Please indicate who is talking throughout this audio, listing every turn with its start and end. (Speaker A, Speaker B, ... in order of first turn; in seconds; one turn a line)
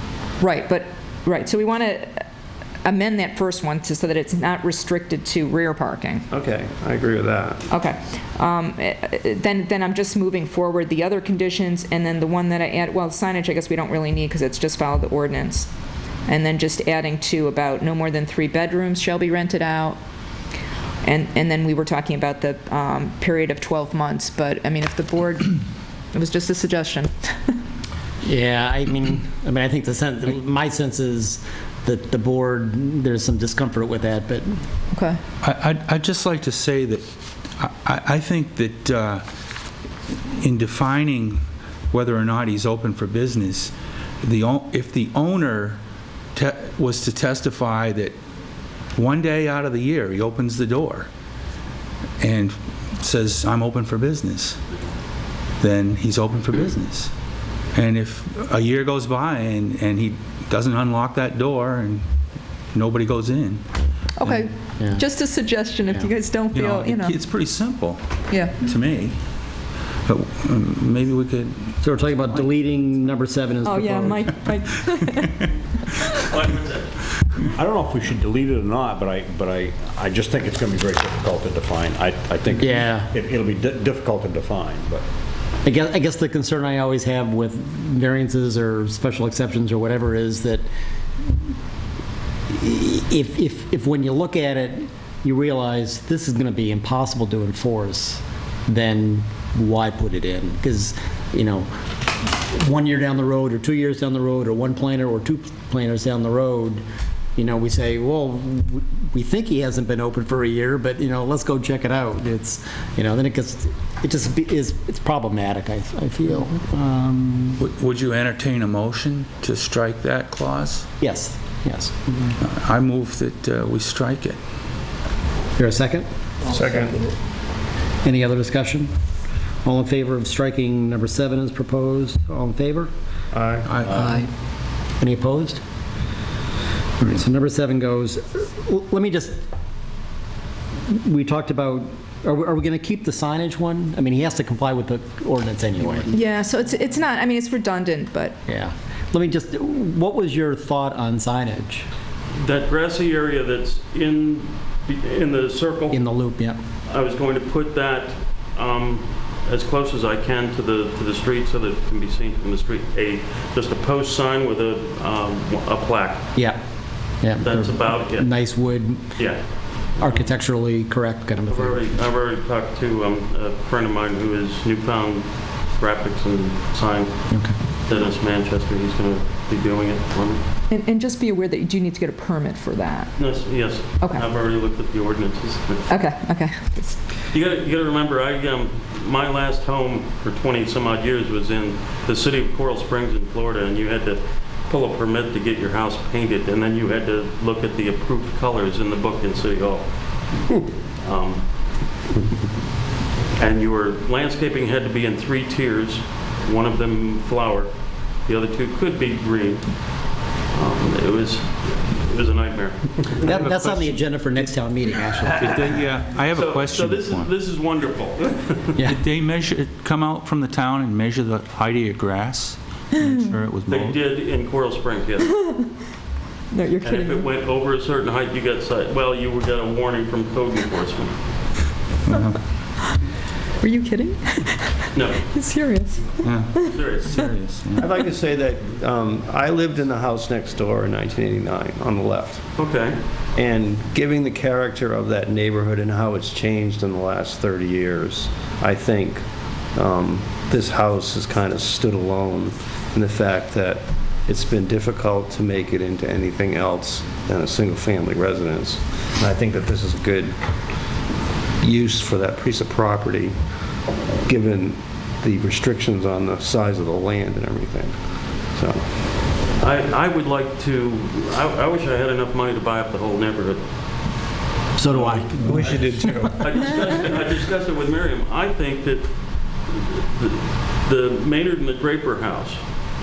Speaker A: 0.4-2.2
Speaker A: 2.8-6.2
Speaker B: 6.3-7.7
Speaker A: 7.7-15.7
Speaker A: 16.3-20.0
Speaker A: 21.0-25.6
Speaker A: 26.1-27.6
Speaker C: 28.2-34.5
Speaker A: 34.9-35.2
Speaker D: 35.4-37.0
Speaker D: 37.6-39.2
Speaker D: 40.3-41.4
Speaker D: 41.9-45.8
Speaker D: 46.3-48.1
Speaker D: 48.9-51.1
Speaker D: 52.2-54.6
Speaker D: 55.6-57.1
Speaker D: 57.7-62.0
Speaker D: 62.7-63.6
Speaker A: 64.2-67.2
Speaker C: 64.8-65.0
Speaker D: 66.5-68.0
Speaker A: 68.3-68.6
Speaker D: 68.5-69.2
Speaker D: 70.0-72.4
Speaker C: 71.8-74.3
Speaker A: 73.6-75.4
Speaker E: 76.3-77.0
Speaker F: 77.5-85.0
Speaker C: 82.6-83.1
Speaker C: 85.6-90.6
Speaker C: 92.5-101.7
Speaker C: 102.3-106.8
Speaker C: 107.3-117.6
Speaker D: 117.6-120.9
Speaker C: 121.0-122.3
Speaker D: 122.4-124.4
Speaker C: 125.6-126.0
Speaker B: 126.5-127.0
Speaker C: 128.0-128.9
Speaker C: 129.6-132.9
Speaker B: 133.3-133.7
Speaker D: 133.7-134.1
Speaker C: 133.9-134.2
Speaker C: 135.0-135.6
Speaker C: 137.0-139.4
Speaker C: 140.9-146.2
Speaker A: 146.1-148.4
Speaker C: 148.5-151.9
Speaker E: 152.4-156.0
Speaker C: 155.9-156.6
Speaker E: 156.9-166.3
Speaker C: 166.3-169.4
Speaker E: 167.4-168.5
Speaker E: 169.2-170.3
Speaker C: 170.0-171.8
Speaker E: 171.4-180.4
Speaker A: 180.7-183.3
Speaker E: 183.2-185.9
Speaker A: 185.9-187.0
Speaker E: 187.3-200.4
Speaker E: 201.0-201.9
Speaker E: 203.3-213.4
Speaker C: 213.2-215.8
Speaker D: 215.4-217.3
Speaker E: 216.3-218.7
Speaker D: 218.8-224.0
Speaker E: 223.7-225.3
Speaker A: 225.3-225.7
Speaker A: 226.5-227.2
Speaker E: 226.8-231.2
Speaker D: 232.1-232.4
Speaker A: 233.6-236.8
Speaker E: 234.9-235.2
Speaker D: 236.2-237.8
Speaker E: 236.7-237.2
Speaker B: 237.8-242.5
Speaker E: 242.6-242.9
Speaker B: 243.3-249.2
Speaker B: 249.7-260.3
Speaker B: 261.6-263.3
Speaker B: 264.2-267.9
Speaker B: 268.5-268.8
Speaker E: 269.6-273.6
Speaker C: 274.8-275.9
Speaker E: 274.9-282.6
Speaker B: 275.4-277.0